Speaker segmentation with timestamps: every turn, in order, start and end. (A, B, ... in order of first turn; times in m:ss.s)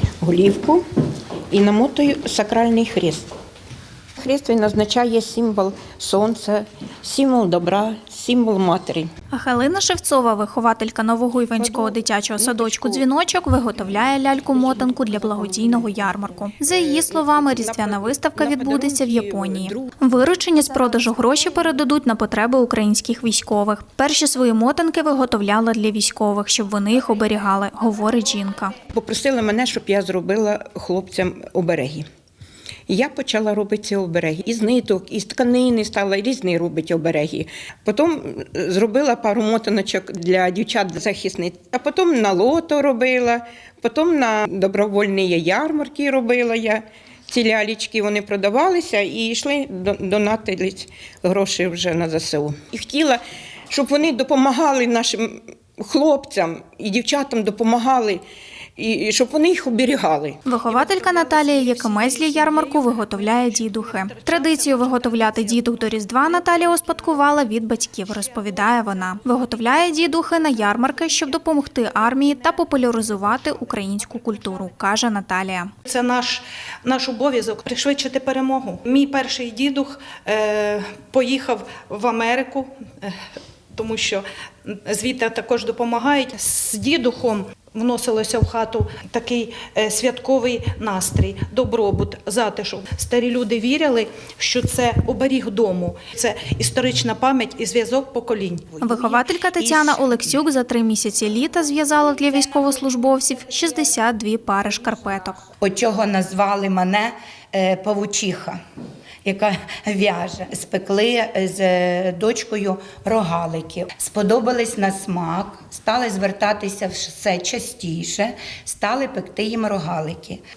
0:00.2-0:00.8 A
0:01.5-0:03.3 A
0:04.2-0:09.1 A
0:09.3-0:28.8 B
0:11.6-0:13.0 A
0:14.9-0:15.7 A
0:16.6-0:19.9 A
0:28.9-0:32.1 A
0:32.9-0:58.2 A
0:58.8-1:00.4 A
1:00.4-1:15.7 B
1:00.7-1:03.8 C
1:04.4-1:05.2 C
1:15.9-1:22.8 C
1:23.8-1:24.2 C
1:24.8-1:38.8 C
1:38.8-1:45.4 B
1:38.8-1:40.4 D
1:45.6-1:48.6 D
1:49.2-2:00.4 D